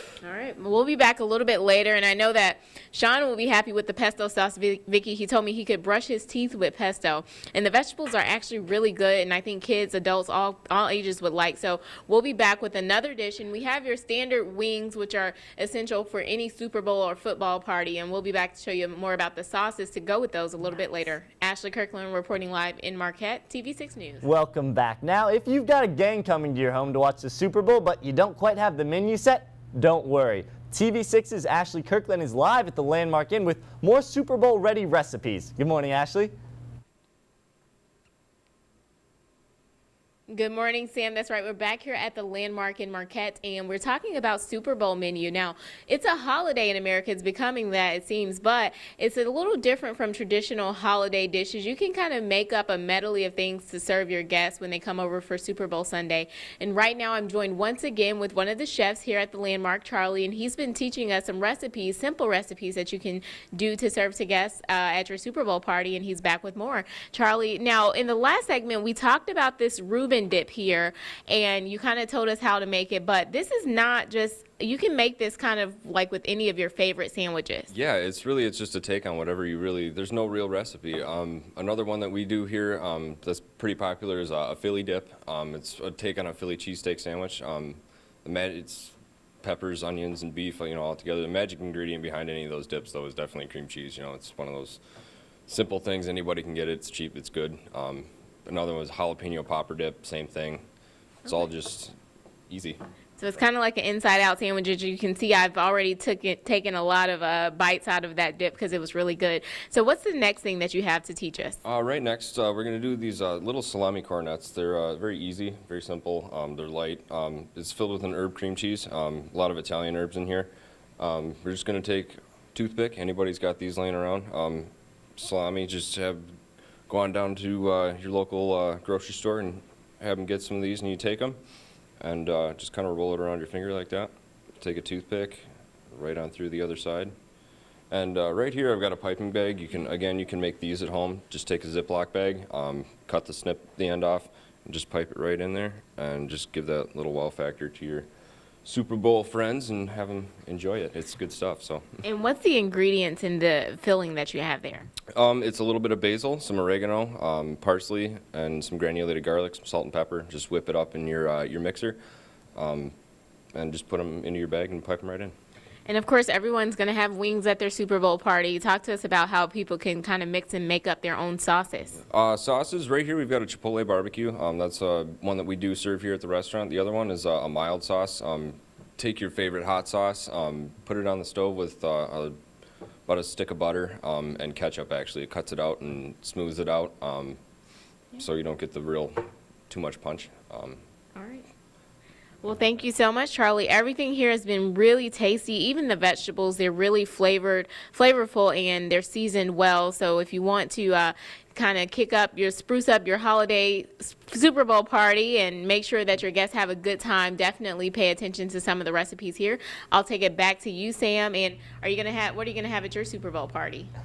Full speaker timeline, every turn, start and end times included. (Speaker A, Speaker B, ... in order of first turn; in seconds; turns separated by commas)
Speaker A: 0.2-24.2, Speaker B: 24.2-36.3, Speaker A: 40.3-77.7, Speaker C: 77.7-94.8, Speaker C: 95.5-100.6, Speaker C: 101.3-102.0, Speaker C: 102.5-102.8, Speaker A: 103.2-111.6, Speaker C: 111.6-126.4, Speaker C: 126.9-131.4, Speaker C: 132.0-137.1, Speaker C: 137.9-148.1, Speaker C: 148.7-152.0, Speaker A: 152.0-154.9, Speaker C: 155.1-162.0, Speaker C: 162.6-162.9, Speaker C: 163.5-165.3, Speaker A: 165.9-172.0, Speaker C: 172.1-182.4, Speaker C: 183.1-187.4, Speaker C: 188.2-190.8, Speaker A: 191.2-191.5, Speaker A: 192.4-213.9